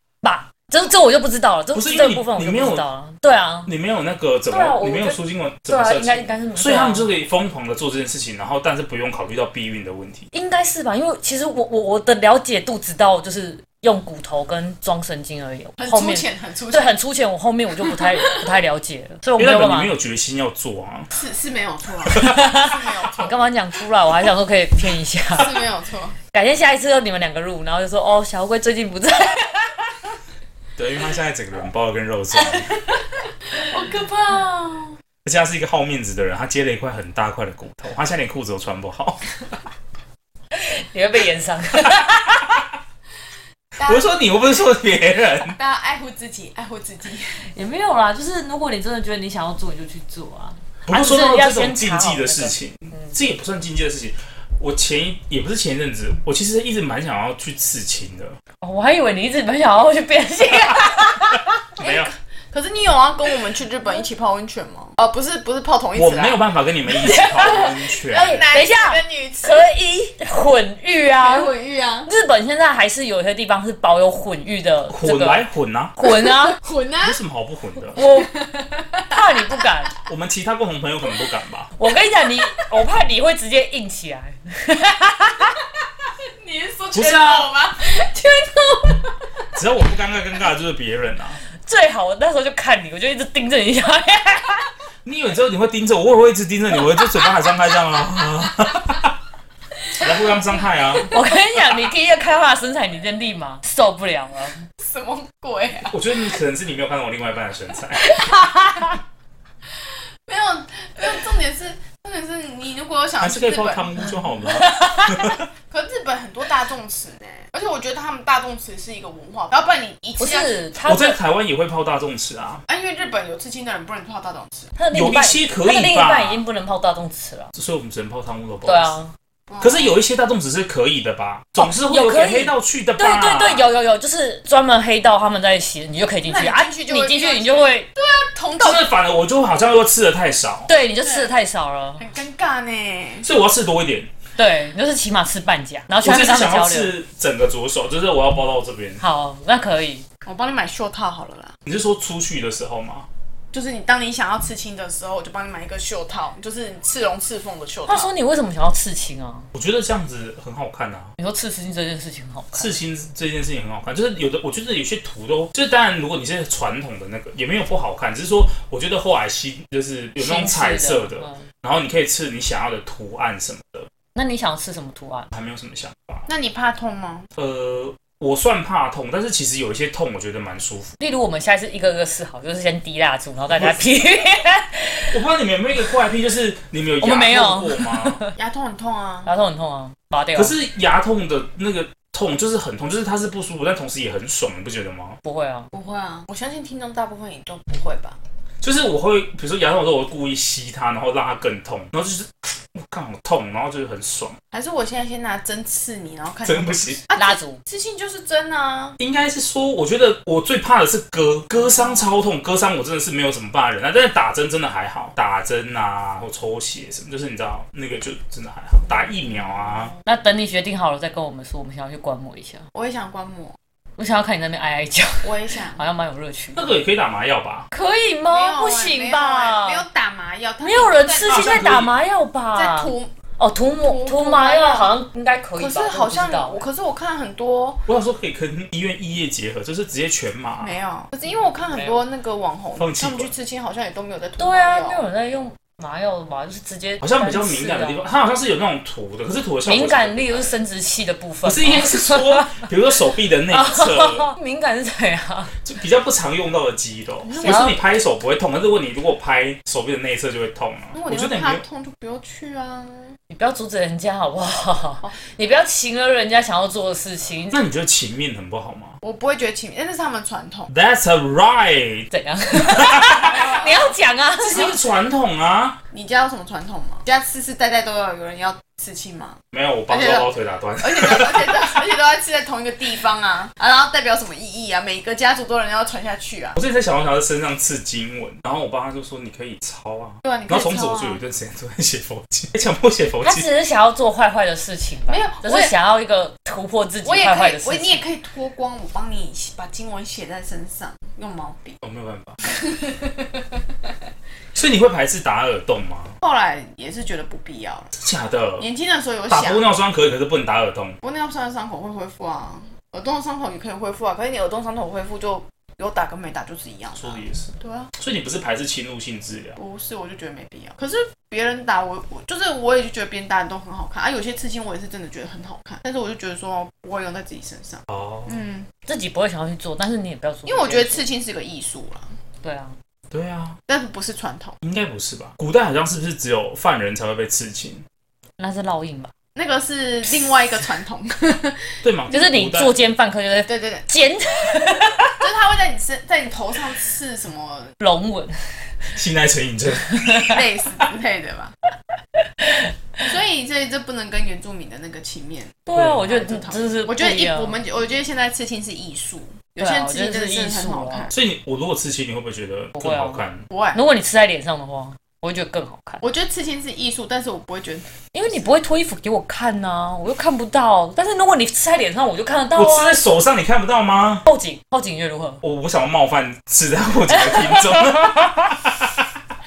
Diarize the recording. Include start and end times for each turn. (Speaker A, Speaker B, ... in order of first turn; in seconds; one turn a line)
Speaker A: 0.2-3.7
Speaker B: 1.7-2.8
Speaker B: 3.6-10.3
Speaker A: 4.5-7.1
Speaker A: 10.3-19.9
Speaker C: 15.8-17.0
Speaker C: 17.8-18.6
Speaker B: 19.4-21.1
Speaker C: 21.1-23.3
Speaker B: 22.1-22.5
Speaker A: 22.2-25.6
Speaker C: 25.3-26.2
Speaker A: 26.3-29.9
Speaker B: 30.8-32.7
Speaker C: 33.5-35.0
Speaker B: 35.2-39.3
Speaker A: 40.5-42.6
Speaker C: 43.8-44.7
Speaker B: 43.8-45.5
Speaker C: 45.4-47.4
Speaker A: 47.5-53.1
Speaker B: 50.9-58.4
Speaker A: 58.6-61.6
Speaker B: 60.7-62.1
Speaker C: 61.8-66.5
Speaker B: 65.9-68.5
Speaker A: 67.0-71.5
Speaker C: 67.2-69.6
Speaker C: 71.2-72.1
Speaker A: 72.0-76.6
Speaker B: 74.9-75.9
Speaker C: 76.0-77.2
Speaker B: 77.0-78.0
Speaker A: 77.9-78.5
Speaker C: 78.0-79.6
Speaker A: 79.0-79.9
Speaker B: 80.0-81.7
Speaker A: 81.8-85.6
Speaker C: 86.0-89.0
Speaker B: 86.9-87.5
Speaker A: 88.0-88.8
Speaker B: 89.5-91.4
Speaker A: 91.7-94.7
Speaker B: 95.0-99.2
Speaker B: 99.9-101.1
Speaker A: 101.1-104.6
Speaker C: 104.8-106.1
Speaker B: 105.9-108.2
Speaker A: 108.2-108.8
Speaker C: 109.8-114.0
Speaker B: 113.2-115.5
Speaker A: 114.6-115.4
Speaker C: 115.7-120.7
Speaker A: 120.2-121.2
Speaker B: 120.8-122.6
Speaker C: 122.7-124.7
Speaker A: 124.8-127.5
Speaker B: 124.9-126.4
Speaker B: 127.5-129.0
Speaker A: 128.6-129.1
Speaker C: 129.5-130.0
Speaker B: 129.6-133.7
Speaker A: 131.6-137.9
Speaker C: 136.2-138.9
Speaker B: 138.6-140.7
Speaker A: 140.7-142.0
Speaker C: 141.0-141.3
Speaker C: 142.0-143.3
Speaker B: 143.2-144.1
Speaker A: 144.4-146.9
Speaker B: 146.0-149.0
Speaker A: 149.0-150.0
Speaker C: 150.2-151.5
Speaker B: 151.7-153.1
Speaker C: 153.5-158.1
Speaker A: 157.9-159.5
Speaker B: 159.5-161.1
Speaker A: 161.2-162.8
Speaker B: 162.5-173.9
Speaker A: 170.2-171.5
Speaker A: 174.1-175.3
Speaker B: 175.3-176.2
Speaker C: 176.3-177.3
Speaker B: 177.3-180.9
Speaker A: 181.0-185.2
Speaker B: 183.5-183.8
Speaker B: 185.1-188.2
Speaker A: 187.0-188.3
Speaker C: 188.3-189.3
Speaker A: 189.2-190.5
Speaker B: 190.3-195.2
Speaker A: 195.2-195.7
Speaker C: 195.7-198.2
Speaker B: 198.6-204.4
Speaker C: 204.5-209.0
Speaker B: 206.4-207.0
Speaker A: 207.2-207.6
Speaker B: 209.0-219.9
Speaker C: 211.6-212.1
Speaker C: 219.1-220.0
Speaker A: 220.0-222.7
Speaker C: 222.7-223.6
Speaker A: 224.0-226.7
Speaker C: 225.2-225.8
Speaker B: 226.5-227.7
Speaker A: 227.7-229.8
Speaker C: 228.3-231.8
Speaker A: 230.6-236.6
Speaker B: 231.3-231.9
Speaker C: 232.5-233.1
Speaker C: 233.8-235.0
Speaker C: 235.6-237.8
Speaker B: 237.8-240.8
Speaker C: 240.6-245.0
Speaker A: 241.6-242.0
Speaker B: 242.8-243.3
Speaker A: 244.4-248.1
Speaker B: 247.0-250.5
Speaker A: 249.7-252.6
Speaker B: 251.4-254.3
Speaker A: 253.5-255.5
Speaker B: 255.6-261.6
Speaker C: 257.2-257.8
Speaker A: 257.3-257.8
Speaker C: 260.9-263.2
Speaker A: 263.3-267.6
Speaker B: 267.5-269.0
Speaker C: 269.0-270.7
Speaker B: 270.7-273.4
Speaker A: 272.1-274.8
Speaker C: 273.2-273.9
Speaker B: 274.4-275.8
Speaker C: 275.9-286.6
Speaker B: 279.5-281.7
Speaker B: 286.6-293.5
Speaker C: 290.2-291.2
Speaker A: 293.2-298.0
Speaker C: 295.1-295.7
Speaker C: 297.0-301.8
Speaker B: 301.8-302.4
Speaker C: 302.4-303.6
Speaker B: 304.5-306.2
Speaker C: 306.2-307.9
Speaker B: 307.9-308.7
Speaker C: 308.6-309.6
Speaker B: 309.3-311.0
Speaker C: 311.0-317.9
Speaker B: 316.9-319.6
Speaker C: 319.6-328.7
Speaker B: 327.9-328.4
Speaker A: 328.9-331.1
Speaker C: 330.4-332.1
Speaker A: 332.4-332.8
Speaker B: 333.1-333.6
Speaker C: 333.7-334.6
Speaker B: 334.6-337.8
Speaker A: 338.4-339.1
Speaker C: 339.4-341.8
Speaker B: 341.8-342.7
Speaker A: 342.1-345.2
Speaker C: 343.4-343.9
Speaker C: 345.1-347.8
Speaker A: 347.8-348.9
Speaker B: 348.9-350.2
Speaker A: 349.9-350.4
Speaker C: 350.1-351.5
Speaker A: 352.4-353.0
Speaker C: 353.0-361.1
Speaker A: 355.7-357.6
Speaker B: 355.7-356.1
Speaker A: 359.6-361.1
Speaker B: 361.1-363.4
Speaker A: 362.8-363.2
Speaker C: 363.5-363.8
Speaker A: 363.7-366.0
Speaker C: 366.0-368.4
Speaker A: 368.1-373.1
Speaker B: 372.5-374.2
Speaker A: 374.2-375.4
Speaker B: 375.4-379.1
Speaker A: 377.1-378.2